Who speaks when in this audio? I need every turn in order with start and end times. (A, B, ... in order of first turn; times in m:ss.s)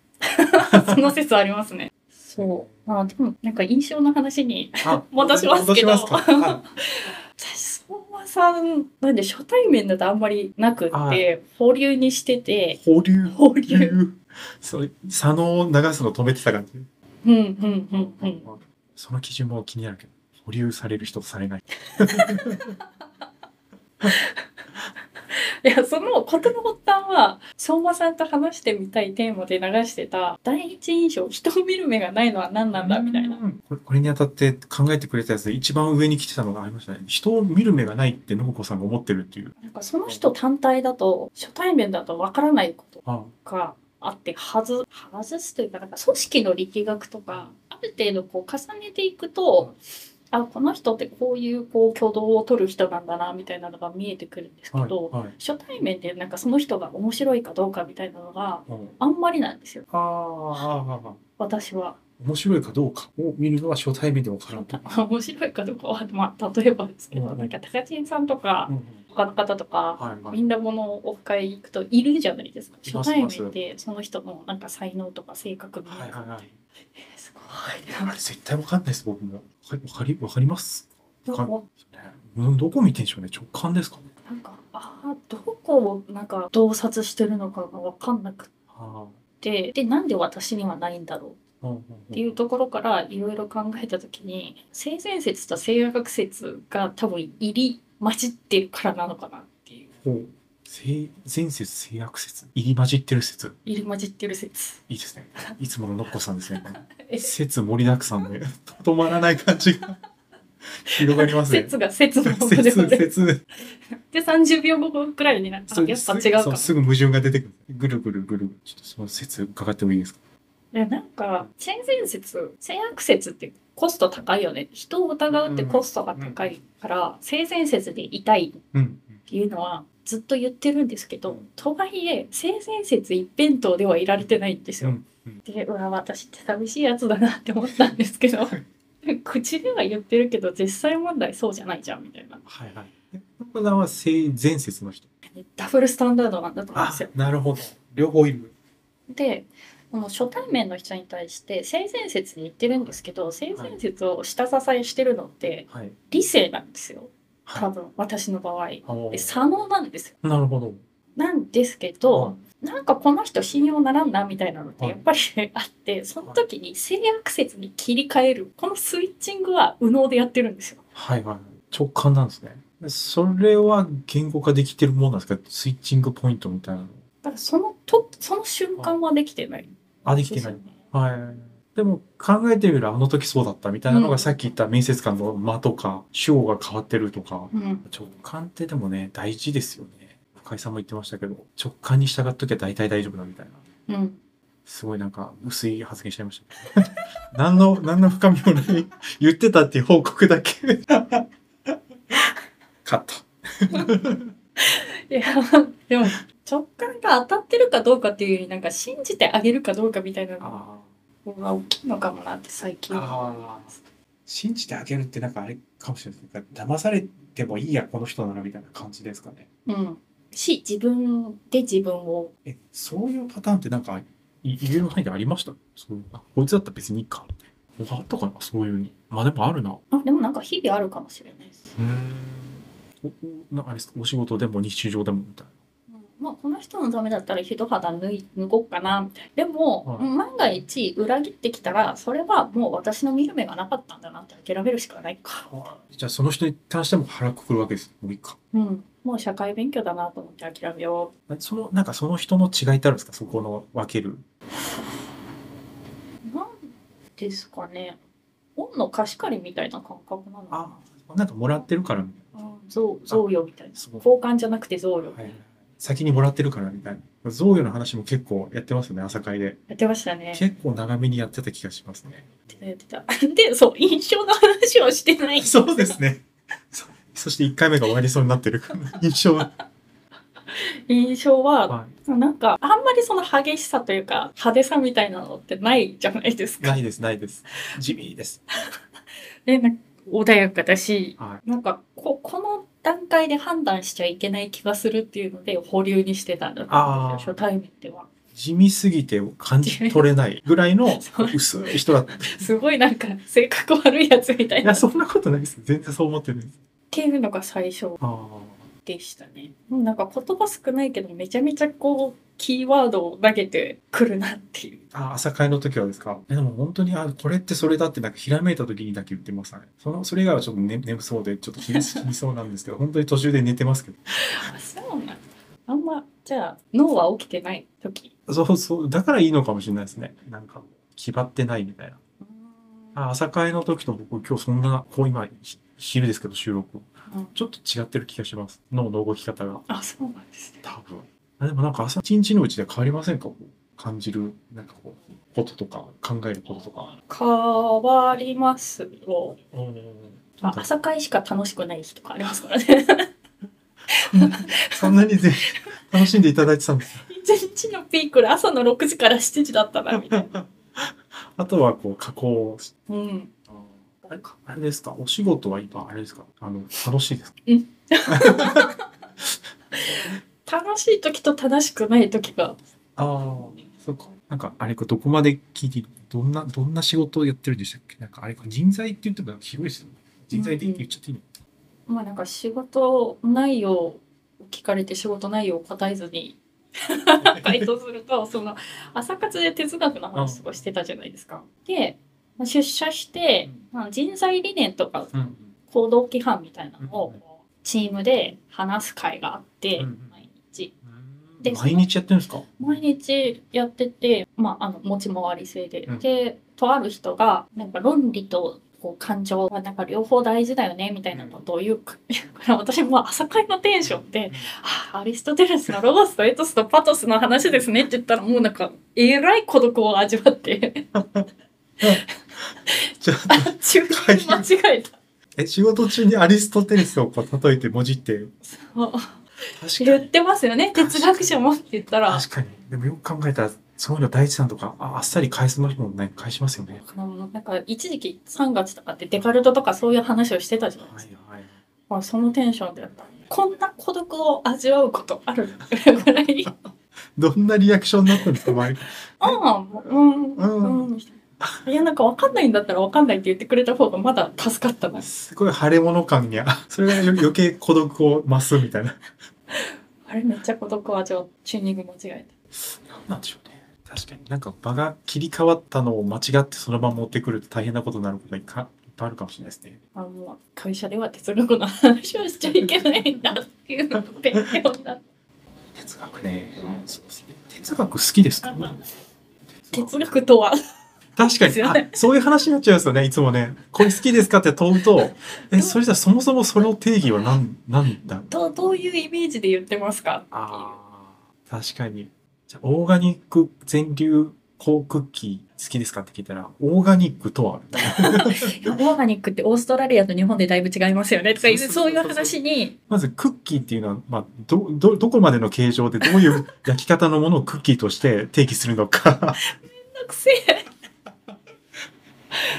0:00.2-0:14.0 A
0:00.6-0:01.1 B
0:02.4-0:02.9 B
0:04.8-0:06.6 B
0:10.9-0:11.3 B
0:12.8-0:16.9 B
0:17.2-0:18.4 A
0:17.9-0:22.7 B
0:21.9-0:22.7 A
0:24.0-0:24.4 A
0:25.3-0:33.4 A
0:32.7-0:39.5 B
0:39.6-0:49.7 A
0:43.0-0:43.3 B
0:50.3-0:59.8 A
0:54.7-0:55.3 B
0:58.7-0:58.9 B
0:59.9-1:01.2 B
1:01.4-1:02.0 A
1:02.2-1:04.9 B
1:04.5-1:16.2 A
1:07.1-1:07.5 B
1:08.7-1:09.0 B
1:10.0-1:10.4 B
1:12.8-1:13.5 B
1:15.9-1:16.6 B
1:16.9-1:18.1 A
1:18.0-1:24.1 B
1:21.3-1:21.6 A
1:24.2-1:28.5 A
1:28.7-1:29.2 B
1:29.4-1:31.4 A
1:31.6-1:32.4 B
1:32.1-1:39.9 A
1:40.0-1:43.6 B
1:43.6-1:44.8 A
1:44.9-1:50.0 B
1:46.8-1:47.3 A
1:50.8-1:51.7 B
1:51.0-1:53.0 A
1:52.2-1:53.4 B
1:54.1-1:56.7 A
1:55.7-2:00.2 B
2:00.7-2:08.6 A
2:05.3-2:06.4 B
2:08.7-2:09.2 B
2:09.2-2:22.4 A
2:14.8-2:15.4 B
2:22.4-2:25.1 B
2:25.3-2:27.1 A
2:26.7-2:28.5 B
2:29.1-2:40.2 A
2:35.7-2:36.0 B
2:38.8-2:39.3 B
2:40.2-2:40.8 B
2:41.2-2:50.8 A
2:42.1-2:42.4 B
2:50.9-2:57.0 B
2:57.2-2:59.7 A
3:00.0-3:13.6 B
3:00.3-3:00.8 A
3:03.9-3:04.2 A
3:07.5-3:07.8 A
3:13.9-3:14.2 A
3:14.6-3:21.3 B
3:22.8-3:24.3 B
3:24.6-3:30.6 A
3:30.4-3:30.9 B
3:31.2-3:33.5 A
3:32.9-3:33.7 B
3:34.3-3:39.5 B
3:39.6-3:42.3 A
3:42.4-3:49.8 B
3:49.9-3:51.7 A
3:51.7-3:55.5 B
3:55.9-4:05.5 A
4:05.5-4:08.4 B
4:08.5-4:11.1 A
4:11.3-4:14.2 B
4:16.2-4:18.0 A
4:18.6-4:20.8 A
4:20.5-4:22.3 B
4:22.3-4:25.2 A
4:23.1-4:24.0 B
4:25.1-4:29.6 B
4:29.7-4:30.4 A
4:30.3-4:32.6 B
4:32.5-4:36.0 A
4:35.4-4:39.5 B
4:40.5-4:46.8 A
4:46.6-4:48.4 B
4:49.4-4:58.1 A
4:51.2-4:51.4 B
4:56.7-4:57.4 B
4:58.3-5:02.5 B
4:59.6-5:00.0 A
5:00.9-5:01.4 A
5:02.1-5:04.9 A
5:04.6-5:06.6 B
5:06.9-5:08.0 A
5:08.0-5:08.7 B
5:08.8-5:14.8 A
5:14.9-5:24.0 B
5:21.6-5:22.1 A
5:24.2-5:28.1 A
5:28.3-5:32.0 B
5:32.2-5:33.0 A
5:32.9-5:39.6 B
5:37.1-5:37.3 A
5:39.7-5:40.6 A
5:40.6-5:46.9 B
5:47.1-5:49.4 A
5:49.5-5:50.7 B
5:50.4-5:53.1 A
5:53.9-5:55.8 A
5:54.1-5:57.1 B
5:57.0-6:00.3 A
5:59.9-6:02.7 B
6:02.9-6:03.3 A
6:03.5-6:07.4 B
6:04.0-6:04.3 A
6:07.5-6:08.9 A
6:08.1-6:08.7 B
6:09.7-6:12.6 A
6:13.0-6:21.2 B
6:20.3-6:20.8 A
6:21.9-6:35.1 A
6:27.2-6:27.7 B
6:30.1-6:30.6 B
6:35.1-6:35.5 B
6:35.7-6:40.7 A
6:36.8-6:37.2 B
6:39.8-6:40.2 B
6:40.8-6:42.5 B
6:41.4-6:41.8 A
6:42.6-7:00.9 A
6:51.1-6:51.4 B
6:53.8-6:54.5 B
7:01.0-7:01.2 B
7:02.6-7:05.0 A
7:03.0-7:04.5 B
7:05.4-7:08.3 B
7:08.4-7:09.2 A
7:09.6-7:10.1 B
7:09.8-7:12.2 A
7:10.7-7:11.4 B
7:12.1-7:16.8 B
7:16.8-7:21.0 A
7:20.8-7:21.6 B
7:21.9-7:26.6 A
7:27.1-7:29.4 B
7:29.2-7:35.1 A
7:30.4-7:30.9 B
7:35.0-7:39.0 B
7:39.5-7:42.3 A
7:42.5-7:49.8 B
7:49.9-7:55.0 A
7:55.7-7:58.8 B
7:59.6-8:00.2 B
7:59.7-8:00.6 A
8:01.2-8:08.3 B
8:01.4-8:02.0 A
8:08.3-8:10.8 A
8:10.3-8:18.8 B
8:17.8-8:22.7 A
8:21.4-8:22.4 B
8:22.9-8:29.4 B
8:29.4-8:30.7 A